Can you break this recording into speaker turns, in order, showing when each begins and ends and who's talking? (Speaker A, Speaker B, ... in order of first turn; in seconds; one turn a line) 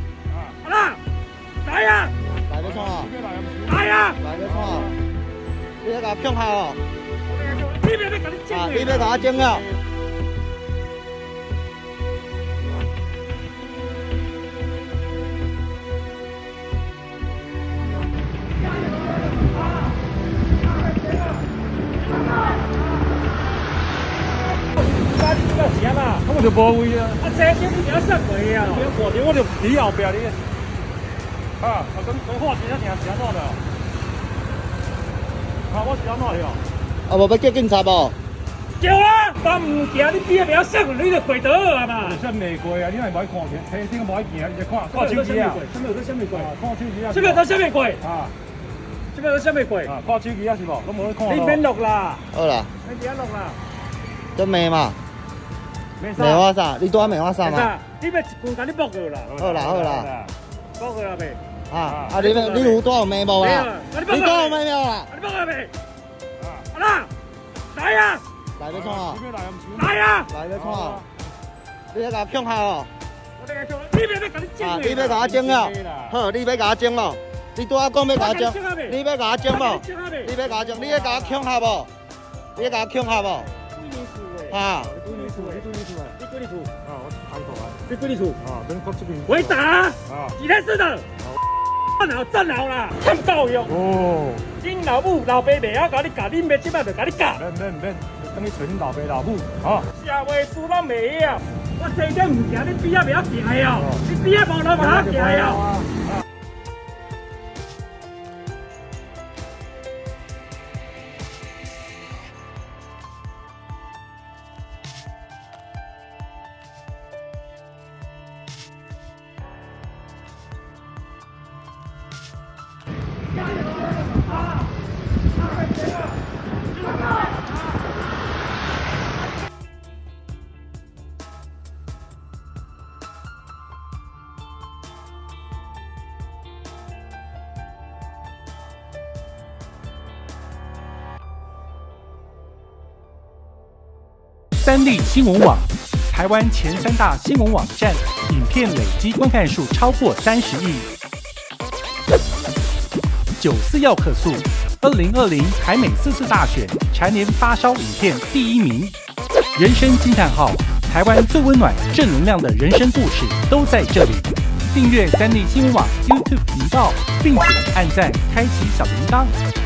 Speaker A: 0.3-0.5
Speaker B: 0.6-1.0
Speaker B: 1.6-2.1
Speaker C: 2.5-3.1
Speaker A: 2.6-3.8
Speaker B: 3.6-4.2
Speaker C: 4.2-4.9
Speaker A: 4.4-4.9
Speaker C: 5.8-6.8
Speaker B: 7.3-9.6
Speaker C: 8.5-9.6
Speaker B: 25.0-26.3
Speaker A: 26.3-27.2
Speaker B: 27.2-28.9
Speaker A: 28.8-30.4
Speaker A: 31.6-33.6
Speaker A: 35.7-36.6
Speaker C: 37.1-38.1
Speaker B: 38.8-42.2
Speaker A: 42.1-45.6
Speaker B: 44.9-46.5
Speaker A: 46.4-47.4
Speaker B: 47.1-48.0
Speaker A: 48.0-48.3
Speaker B: 49.1-49.9
Speaker A: 49.9-51.6
Speaker B: 51.2-52.2
Speaker C: 52.3-52.7
Speaker B: 52.8-53.6
Speaker C: 54.4-55.0
Speaker A: 56.0-56.4
Speaker C: 56.2-57.7
Speaker B: 57.4-59.4
Speaker A: 59.3-60.3
Speaker C: 59.4-60.1
Speaker B: 60.8-61.4
Speaker C: 61.7-65.1
Speaker A: 61.9-62.1
Speaker B: 62.1-62.8
Speaker B: 63.4-65.7
Speaker B: 66.7-67.1
Speaker B: 67.7-68.2
Speaker C: 68.6-69.2
Speaker A: 68.7-69.9
Speaker B: 69.8-70.3
Speaker C: 70.3-71.0
Speaker A: 70.5-71.0
Speaker C: 71.9-72.9
Speaker B: 73.4-75.5
Speaker C: 74.6-81.9
Speaker A: 75.5-76.1
Speaker B: 78.1-81.4
Speaker C: 82.5-83.5
Speaker B: 83.6-86.7
Speaker C: 84.5-84.9
Speaker A: 84.9-86.1
Speaker A: 86.8-87.8
Speaker B: 87.8-88.4
Speaker A: 88.4-89.6
Speaker B: 89.3-91.1
Speaker B: 91.7-93.8
Speaker A: 93.7-94.4
Speaker B: 94.5-97.4
Speaker A: 97.4-99.8
Speaker B: 99.9-105.7
Speaker A: 104.8-106.0
Speaker D: 144.6-150.9
Speaker D: 153.4-158.9
Speaker D: 159.5-169.4